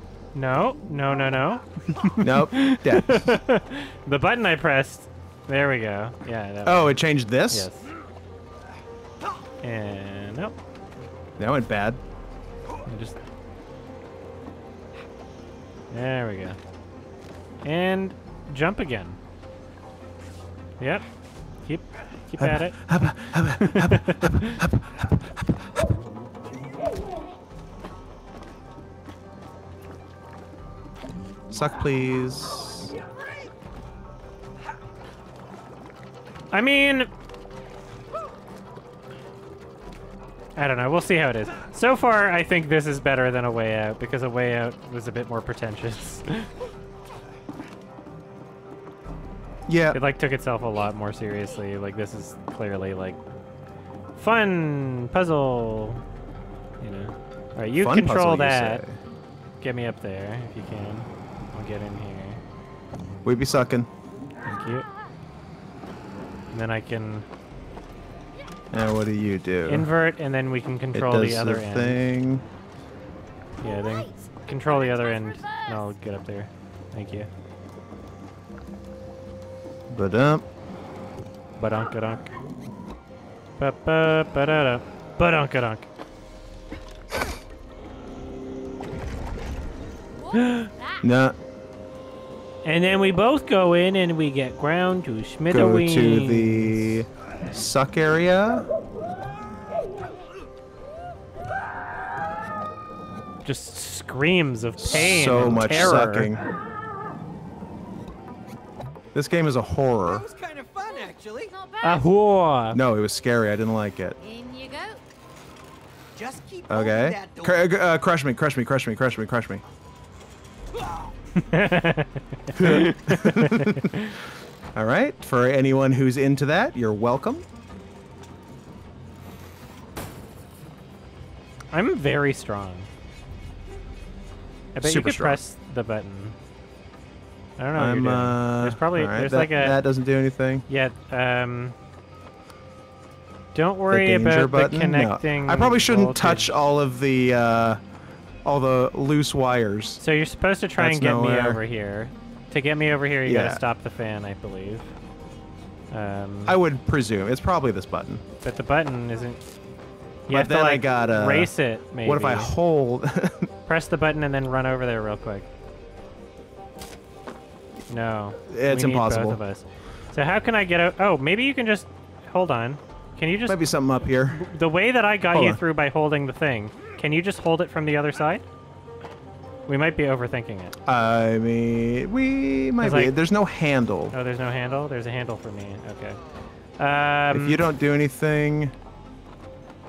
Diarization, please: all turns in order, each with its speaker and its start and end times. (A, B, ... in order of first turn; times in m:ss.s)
0:00.3-0:07.0 A
0:02.2-0:03.4 B
0:06.6-0:07.7 B
0:07.5-0:07.8 A
0:09.6-0:10.6 A
0:11.4-0:12.0 B
0:12.8-0:13.2 A
0:15.9-0:16.6 A
0:17.6-0:19.2 A
0:21.6-0:23.0 A
0:22.4-0:25.8 B
0:23.6-0:24.6 A
0:31.5-0:32.9 B
0:36.5-0:37.1 A
0:40.6-0:46.5 A
0:49.7-0:50.0 B
0:49.9-0:53.2 A
0:54.1-0:56.0 A
0:56.8-0:58.8 A
0:57.7-0:59.0 B
0:59.6-1:02.4 A
1:03.2-1:03.9 B
1:04.4-1:04.9 A
1:06.5-1:07.2 A
1:08.7-1:09.9 B
1:09.6-1:12.1 A
1:10.9-1:12.4 B
1:13.6-1:15.9 C
1:13.6-1:17.3 A
1:19.9-1:20.4 B
1:21.6-1:22.3 A
1:23.6-1:25.9 A
1:30.2-1:31.1 C
1:30.4-1:30.7 A
1:31.0-1:31.4 B
1:32.6-1:37.0 A
1:35.5-1:38.7 B
1:43.4-1:46.4 A
1:44.8-1:46.4 B
1:49.1-1:50.2 B
1:50.0-1:51.5 D
1:50.8-1:52.1 C
1:51.8-1:52.8 A
1:52.7-1:54.2 B
1:54.2-1:55.0 C
1:56.1-1:57.7 D
1:56.7-1:59.6 B
2:00.8-2:01.1 D
2:01.4-2:04.2 A
2:02.5-2:04.1 B
2:04.7-2:07.4 B
2:11.7-2:12.9 A
2:14.7-2:16.4 A
2:14.8-2:15.4 B
2:17.6-2:19.8 A
2:17.7-2:20.6 B
2:20.7-2:21.8 A
2:23.5-2:26.5 A
2:23.9-2:27.8 B
2:28.4-2:30.0 B
2:30.0-2:34.9 A
2:30.8-2:31.6 B
2:33.2-2:33.6 B
2:35.9-2:36.6 A
2:36.4-2:38.2 B
2:38.4-2:39.4 A
2:40.3-2:42.5 A
2:40.3-2:43.5 B
2:43.7-2:45.5 A
2:47.9-2:53.6 A
2:48.5-2:49.4 B
2:53.4-2:54.4 B
2:54.3-2:58.4 A
2:55.3-2:55.6 B
2:59.7-3:00.7 A
3:00.8-3:04.1 B
3:02.8-3:03.1 A
3:04.1-3:06.2 A
3:06.8-3:07.6 A
3:07.3-3:08.7 B